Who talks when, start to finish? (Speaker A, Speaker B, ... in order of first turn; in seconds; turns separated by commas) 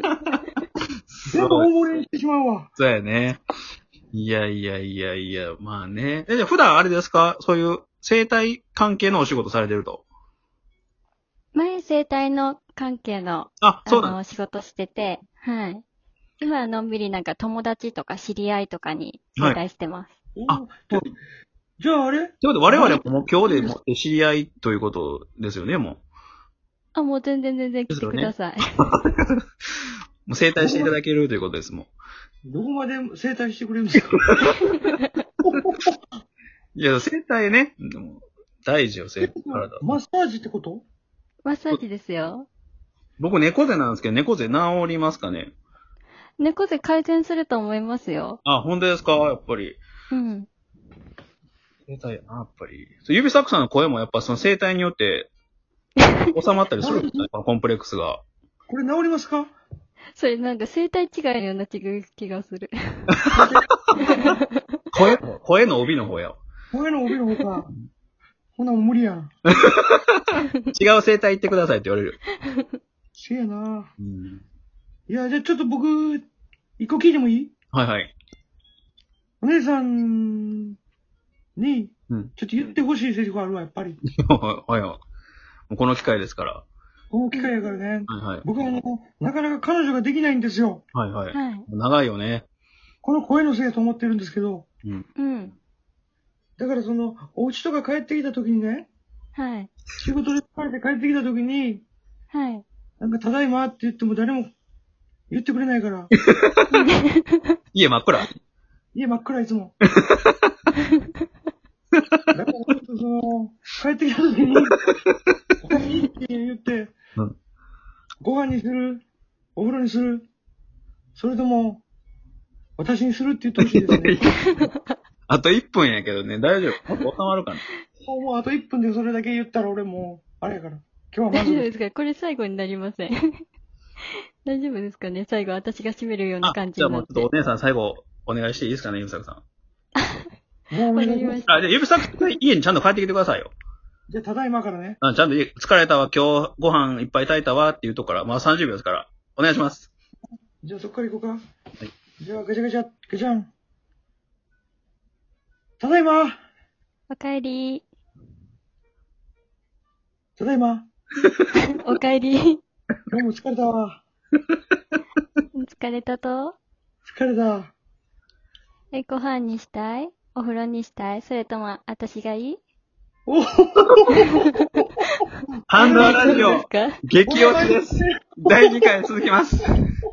Speaker A: 1.1-1.7, Speaker B: 1.2-2.7, Speaker A: 2.8-3.4, Speaker A: 4.1-10.0, Speaker C: 11.5-15.8, Speaker A: 13.6-14.2, Speaker C: 16.4-20.1, Speaker B: 20.4-21.1, Speaker A: 20.5-21.1, Speaker B: 21.8-23.0, Speaker A: 22.4-26.0, Speaker C: 23.5-23.7, Speaker C: 26.9-28.9, Speaker A: 27.9-29.4, Speaker A: 30.2-31.9, Speaker B: 30.6-30.9, Speaker B: 32.5-34.2, Speaker A: 34.2-34.7, Speaker B: 35.4-36.0, Speaker A: 36.7-40.0, Speaker B: 39.2-40.8, Speaker C: 41.4-42.5, Speaker A: 43.2-45.5, Speaker C: 46.4-48.4, Speaker A: 48.4-49.8, Speaker C: 50.1-50.5, Speaker A: 51.9-55.3, Speaker A: 56.3-58.2, Speaker B: 56.8-57.2, Speaker B: 58.7-59.5, Speaker C: 60.1-64.4, Speaker B: 63.3-64.2, Speaker A: 64.9-66.4, Speaker B: 66.7-67.7, Speaker B: 68.5-69.3, Speaker A: 69.5-72.2, Speaker B: 73.2-73.9, Speaker A: 74.0-74.4, Speaker B: 75.1-76.2, Speaker B: 76.8-77.5, Speaker A: 77.7-78.1, Speaker B: 79.4-80.7, Speaker B: 81.5-84.0, Speaker A: 84.2-85.0, Speaker A: 85.7-86.6, Speaker B: 87.1-90.8, Speaker A: 88.1-88.4, Speaker A: 90.9-92.5, Speaker C: 91.3-91.7, Speaker B: 93.0-94.7, Speaker C: 95.2-95.5, Speaker B: 96.6-98.9, Speaker C: 99.3-99.7, Speaker B: 100.0-101.8, Speaker C: 102.3-102.6, Speaker B: 103.0-104.5, Speaker B: 105.3-106.1, Speaker A: 106.2-106.7, Speaker C: 106.7-107.5, Speaker A: 107.7-108.3, Speaker B: 108.9-109.7, Speaker A: 109.9-110.5, Speaker A: 112.0-112.2, Speaker B: 112.3-114.8, Speaker B: 115.6-116.9, Speaker B: 118.2-119.0, Speaker B: 119.5-120.2, Speaker B: 121.2-121.8, Speaker B: 122.8-124.2, Speaker A: 123.6-124.2, Speaker C: 124.2-124.9, Speaker A: 125.3-127.6, Speaker B: 128.0-131.7, Speaker C: 131.3-133.4, Speaker C: 134.4-137.3, Speaker A: 136.4-139.4, Speaker B: 140.7-141.4, Speaker C: 140.9-141.6, Speaker A: 141.5-143.5, Speaker B: 144.1-145.0, Speaker A: 145.0-149.9, Speaker B: 150.6-151.4, Speaker B: 152.2-153.5, Speaker B: 155.8-156.4, Speaker C: 157.1-157.8, Speaker B: 160.4-160.9, Speaker C: 161.6-162.6, Speaker B: 163.1-164.0, Speaker C: 165.5-166.6, Speaker B: 167.0-167.7, Speaker C: 168.9-172.6, Speaker B: 173.3-174.4, Speaker C: 174.3-177.0, Speaker A: 175.7-179.7, Speaker B: 175.7-176.6, Speaker B: 177.2-178.9